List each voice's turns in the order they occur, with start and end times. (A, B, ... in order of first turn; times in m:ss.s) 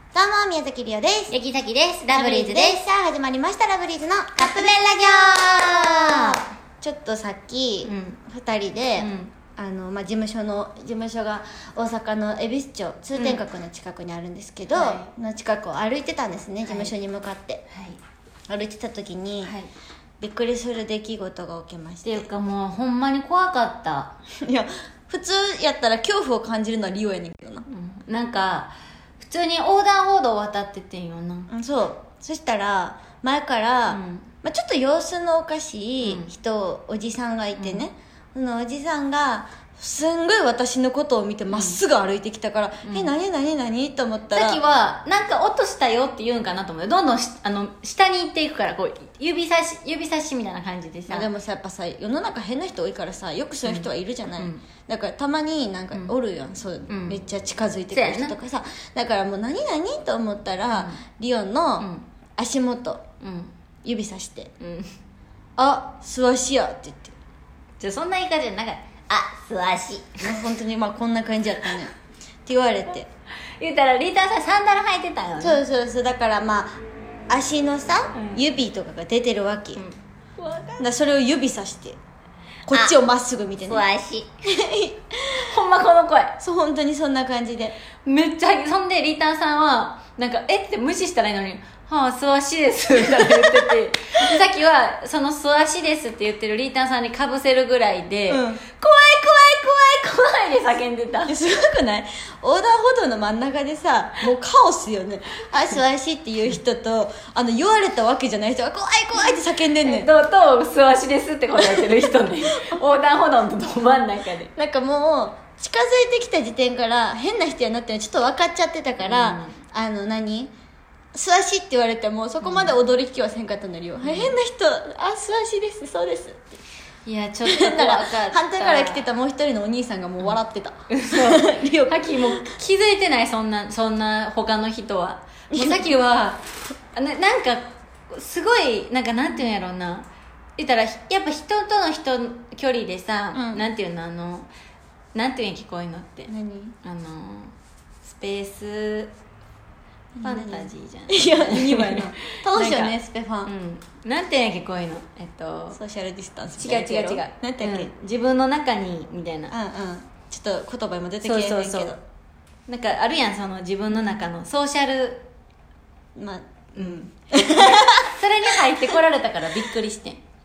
0:00.1-0:01.3 A
0:01.3-0:02.8 B
0:02.1-0:17.6 A
0:04.4-0:06.4 B
0:07.8-0:08.2 B
0:09.0-0:09.3 B
0:13.2-0:13.4 B
0:14.7-0:15.1 B
0:16.6-0:16.9 B
0:17.7-0:18.0 B
0:18.5-0:19.5 A
0:20.2-0:22.3 A
0:22.0-0:24.1 B
0:24.4-0:27.6 A
0:27.7-0:31.5 B
0:31.5-0:44.6 A
0:33.9-0:34.3 B
0:36.0-0:36.3 B
0:37.6-0:37.8 B
0:41.5-0:41.8 B
0:42.8-0:43.1 B
0:44.3-0:51.3 B
0:51.1-1:03.0 A
0:53.6-0:54.6 B
0:56.9-0:57.2 B
0:57.9-0:58.4 B
1:00.7-1:01.0 B
1:01.8-1:02.1 B
1:03.2-1:03.5 B
1:03.8-1:04.5 A
1:04.6-1:04.9 B
1:05.6-1:07.1 A
1:07.8-1:10.2 B
1:10.2-1:11.9 A
1:12.4-1:13.1 A
1:13.6-1:15.6 B
1:15.4-1:19.8 A
1:18.2-1:18.4 B
1:19.8-1:20.8 B
1:20.8-1:22.0 A
1:22.7-1:23.8 A
1:23.7-1:24.3 B
1:24.5-1:25.5 A
1:25.4-1:26.4 B
1:26.4-1:27.8 A
1:28.0-1:41.3 B
1:33.1-1:33.4 A
1:38.3-1:38.6 A
1:41.3-1:50.1 A
1:49.2-1:54.5 B
1:51.6-1:52.8 A
1:54.5-2:00.5 A
1:59.0-1:59.5 B
2:01.1-2:06.6 A
2:02.4-2:02.8 B
2:04.0-2:04.3 B
2:07.0-2:09.0 B
2:07.4-2:12.5 A
2:10.9-2:16.4 B
2:15.5-2:15.8 A
2:16.9-2:24.5 B
2:23.3-2:23.6 A
2:25.1-2:26.3 B
2:26.3-2:26.8 A
2:26.8-2:29.1 B
2:30.1-2:33.5 A
2:30.2-2:32.9 B
2:33.4-2:35.8 B
2:35.7-2:37.9 A
2:36.6-2:39.5 B
2:39.5-2:42.0 A
2:41.2-2:41.9 B
2:42.7-2:45.3 B
2:46.2-2:48.2 A
2:46.7-2:50.2 B